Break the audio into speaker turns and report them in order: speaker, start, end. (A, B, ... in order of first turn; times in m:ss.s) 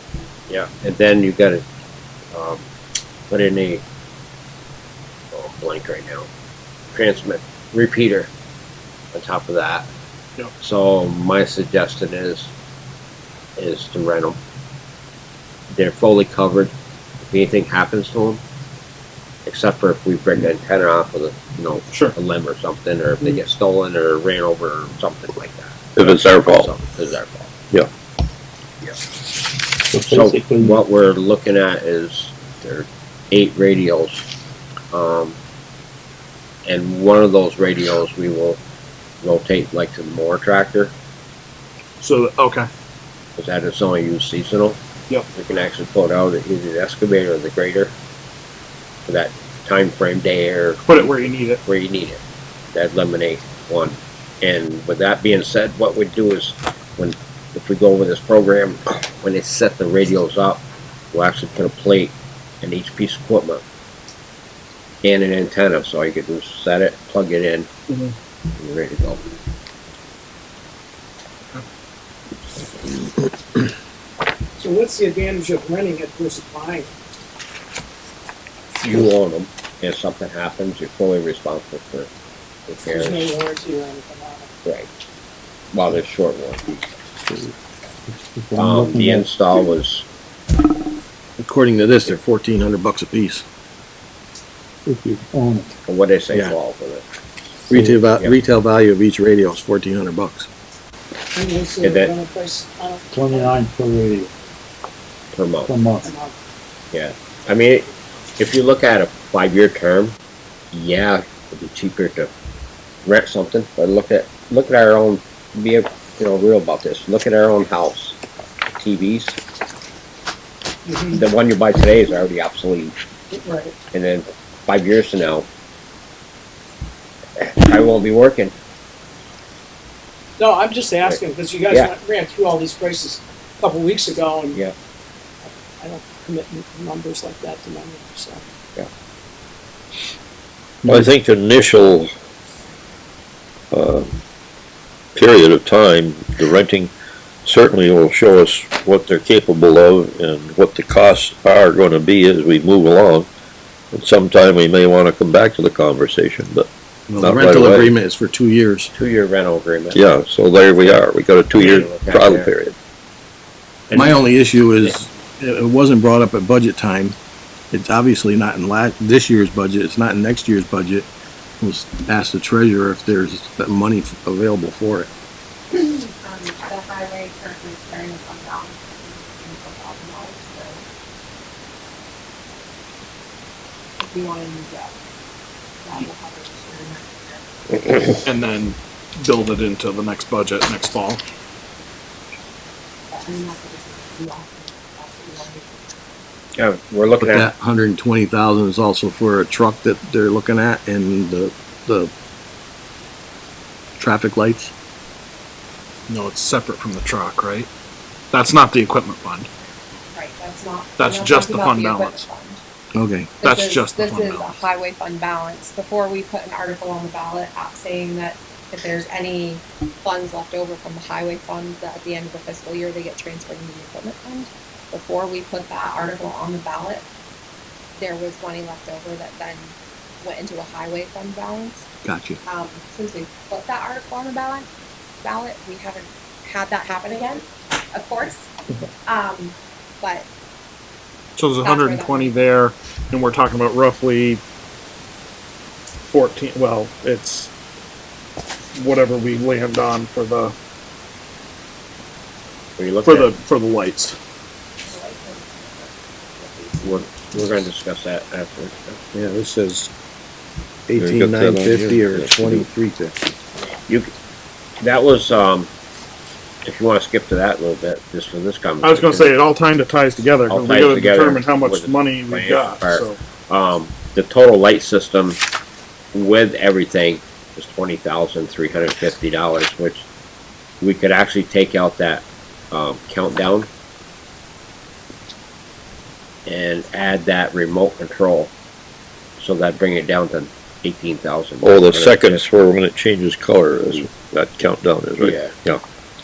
0:00.5-0:01.6 A
0:02.3-0:02.7 A
0:03.3-0:03.8 A
0:05.3-0:06.3 A
0:06.9-0:08.3 A
0:09.1-0:09.9 A
0:10.6-0:12.5 A
0:13.6-0:14.4 A
0:15.7-0:18.4 A
0:19.4-0:27.5 A
0:26.0-0:26.8 B
0:29.8-0:30.8 C
0:30.0-0:34.3 A
0:34.9-0:35.4 A
0:36.6-0:38.6 A
0:39.2-0:40.9 A
0:42.0-0:42.7 D
0:43.4-0:44.8 A
0:45.3-0:47.9 A
0:49.1-0:52.2 A
0:50.8-0:51.6 D
0:52.7-1:03.6 A
1:05.0-1:07.7 A
1:07.9-1:08.1 D
1:08.6-1:09.2 A
1:14.6-1:16.9 E
1:18.8-1:22.1 A
1:22.7-1:23.4 A
1:22.9-1:24.5 E
1:25.7-1:26.9 A
1:27.3-1:27.5 C
1:28.1-1:29.3 C
1:28.6-1:30.1 A
1:31.4-1:33.4 F
1:34.9-1:35.7 C
1:35.9-1:37.0 A
1:37.7-1:40.5 F
1:37.7-1:38.0 C
1:41.3-1:43.6 E
1:41.8-1:42.2 A
1:43.1-1:44.3 C
1:45.3-1:45.8 A
1:45.7-1:46.1 C
1:46.0-1:46.3 E
1:46.9-1:50.2 A
1:50.7-1:52.3 A
1:53.0-1:58.2 A
1:58.8-1:59.4 A
2:00.8-2:01.2 E
2:01.1-2:02.9 A
2:03.3-2:03.7 E
2:03.9-2:05.5 A
2:07.4-2:08.5 A
2:10.4-2:14.6 E
2:11.0-2:11.9 A
2:15.5-2:18.4 E
2:20.8-2:21.1 C
2:20.8-2:22.1 B
2:23.7-2:24.2 B
2:25.2-2:26.9 B
2:27.4-2:33.3 B
2:33.9-2:37.9 B
2:37.1-2:38.9 F
2:38.9-2:40.0 A
2:39.9-2:42.8 B
2:41.5-2:42.5 A
2:43.9-2:47.2 F
2:47.7-2:51.1 F
2:51.6-2:55.1 F
2:55.7-3:00.8 G
3:04.0-3:05.0 G
3:05.8-3:08.2 G
3:08.2-3:11.2 D
3:13.1-3:16.0 G
3:16.6-3:17.5 A
3:17.2-3:22.1 F
3:24.0-3:24.7 F
3:26.1-3:27.7 D
3:28.3-3:29.5 D
3:30.1-3:32.6 G
3:31.0-3:32.2 D
3:32.9-3:33.4 F
3:33.4-3:34.6 D
3:33.4-3:47.0 G
3:48.0-3:51.9 G
3:52.0-3:52.4 F
3:52.4-3:54.7 G
3:55.2-3:58.5 G
3:59.0-4:00.3 G
4:01.4-4:04.4 D
4:01.6-4:02.4 G
4:06.1-4:07.5 D
4:08.7-4:10.5 D
4:12.8-4:13.3 A
4:13.0-4:14.2 D
4:14.8-4:17.2 G
4:16.8-4:19.0 A
4:19.1-4:19.9 F
4:20.9-4:23.4 F
4:21.0-4:22.7 B
4:23.9-4:24.1 A
4:24.8-4:25.7 A
4:26.6-4:29.4 A
4:28.8-4:33.2 D
4:30.5-4:35.4 A
4:36.1-4:40.1 A
4:40.8-4:43.7 A
4:46.4-4:48.5 A
4:49.4-4:52.4 A
4:51.6-4:55.8 B
4:55.2-4:55.8 A